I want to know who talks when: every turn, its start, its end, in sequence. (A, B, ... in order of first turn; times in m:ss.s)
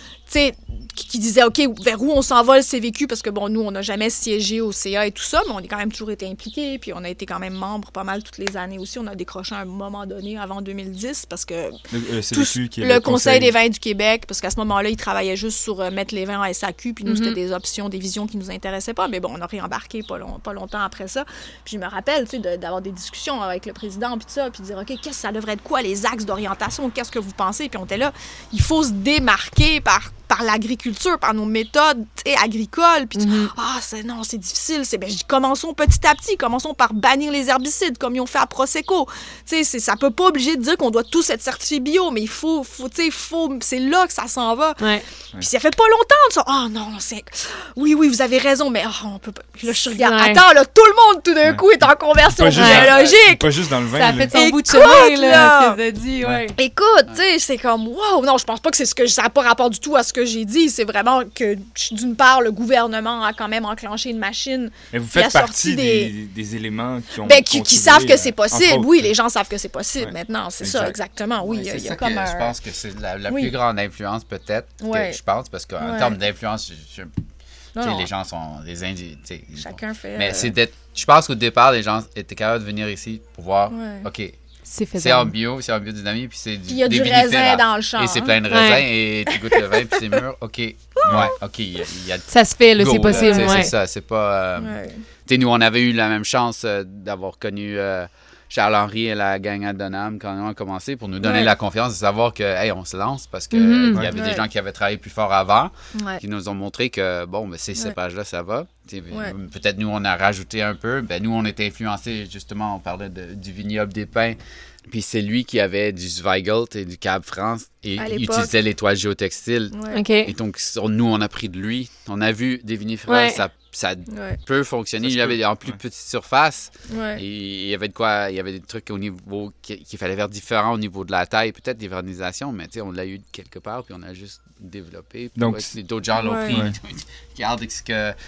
0:00.3-0:11.8 A
0:11.9-0:13.5 B
0:12.3-0:53.6 A
0:17.0-0:17.4 C
0:33.2-0:33.5 C
0:44.8-0:45.0 C
0:50.0-0:50.4 C
0:52.3-0:54.3 B
0:52.5-0:52.9 C
0:53.9-0:56.6 C
0:54.3-0:55.8 A
0:56.5-1:06.1 A
1:04.9-1:09.1 B
1:07.2-1:12.5 A
1:10.0-1:11.0 B
1:11.4-1:17.1 D
1:14.8-1:15.2 A
1:15.8-1:16.2 A
1:17.7-1:18.1 A
1:17.8-1:24.4 D
1:19.6-1:20.5 A
1:23.7-1:24.0 A
1:24.7-1:25.3 C
1:25.0-2:18.2 D
1:26.7-1:28.4 A
1:28.5-1:28.8 C
1:29.3-1:29.9 A
1:31.0-1:31.3 A
1:31.0-1:31.3 B
1:32.3-1:33.7 C
1:33.1-1:33.6 A
1:34.6-1:35.0 A
1:41.2-1:41.5 A
1:43.5-1:44.0 C
1:44.1-1:44.4 A
1:45.9-1:46.2 A
1:58.0-1:58.5 A
1:59.7-2:00.0 A
1:59.9-2:00.3 C
2:03.1-2:03.4 C
2:04.1-2:04.4 A
2:05.0-2:05.8 B
2:06.9-2:07.2 A
2:15.4-2:15.7 B
2:16.2-2:16.6 A